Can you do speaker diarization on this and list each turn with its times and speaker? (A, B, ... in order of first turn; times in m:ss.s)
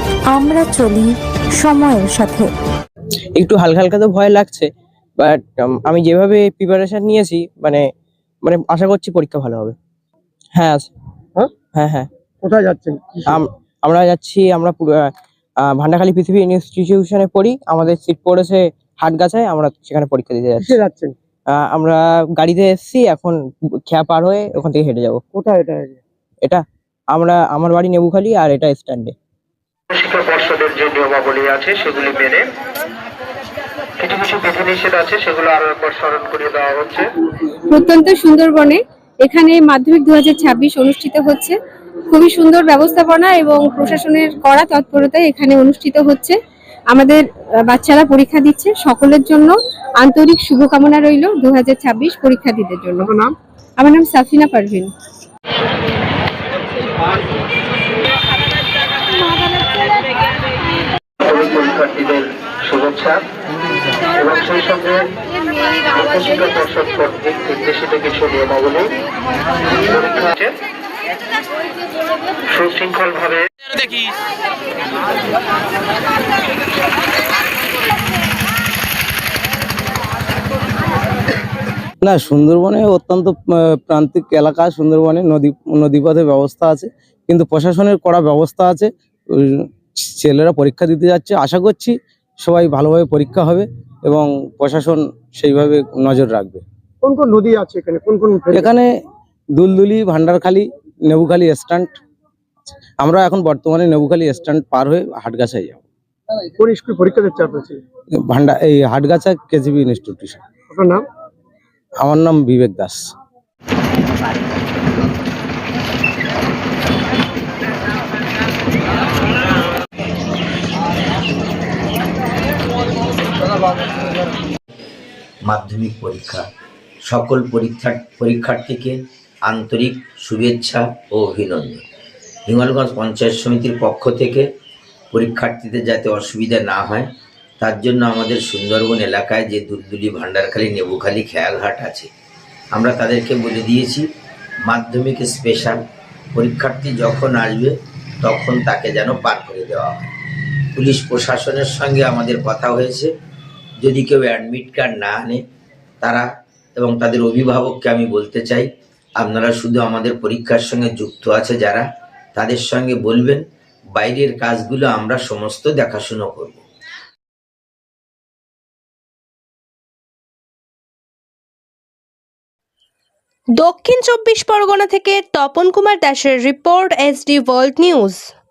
0:00.3-0:02.5 A
0:03.3-0:07.8 B
0:08.4-0:09.8 B
0:10.5-0:10.9 B
0:11.7-0:12.1 B
0:12.4-0:13.4 C
0:13.3-0:15.1 B
0:15.6-0:20.8 B
0:20.6-0:21.1 C
0:21.5-0:25.2 B
0:25.3-0:26.0 C
0:26.4-0:29.1 B
0:29.9-0:32.4 D
0:34.0-0:37.0 D
0:37.7-0:41.5 E
0:42.1-0:46.4 E
0:46.9-0:53.1 E
0:53.8-0:54.9 E
1:01.2-1:03.2 D
1:04.2-1:05.1 D
1:05.9-1:08.9 D
1:09.7-1:10.6 D
1:12.5-1:13.5 D
1:22.0-1:36.6 F
1:37.0-1:38.8 C
1:38.5-1:38.9 F
1:39.6-1:42.0 F
1:43.0-1:45.8 F
1:46.6-1:47.8 C
1:48.3-1:50.4 F
1:50.7-1:51.0 C
1:52.0-1:53.1 F
2:05.4-2:06.4 G
2:07.0-2:11.8 G
2:12.4-2:14.5 G
2:15.1-2:17.1 G
2:17.6-2:22.1 G
2:22.7-2:24.1 G
2:24.6-2:25.8 G
2:26.3-2:30.1 G
2:30.7-2:33.1 G
2:33.8-2:35.4 G
2:36.0-2:43.4 G
2:43.9-2:46.6 G
2:53.6-2:58.2 H